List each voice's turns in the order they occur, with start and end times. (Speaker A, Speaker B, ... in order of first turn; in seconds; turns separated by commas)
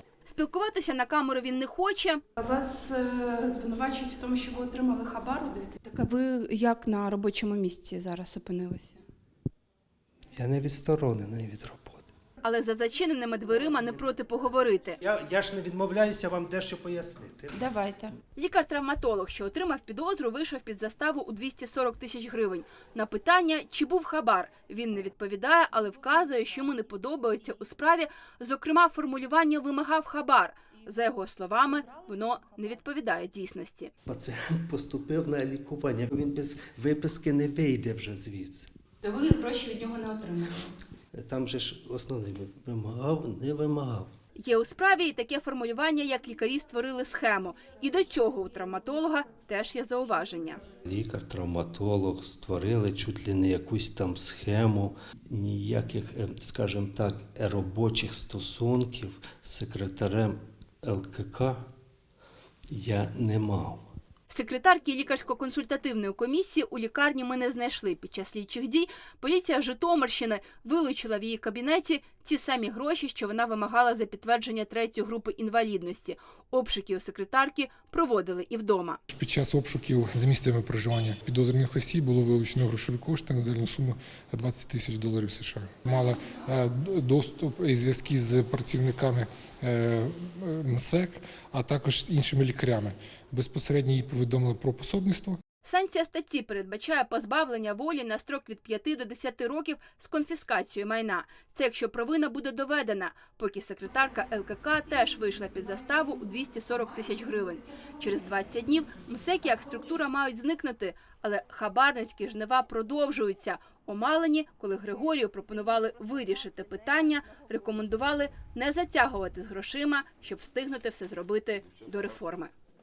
Speaker A: 0.3-2.2, Speaker B: 2.4-9.0, Speaker C: 10.4-12.1, Speaker A: 12.4-15.0, Speaker C: 15.0-17.6, Speaker B: 17.5-18.1, Speaker A: 18.4-33.9, Speaker C: 34.1-38.7, Speaker B: 39.0-40.6, Speaker C: 41.1-44.1, Speaker A: 44.4-50.6, Speaker C: 50.9-61.7, Speaker C: 62.7-63.9, Speaker A: 64.3-79.0, Speaker D: 79.1-95.4, Speaker A: 95.6-122.5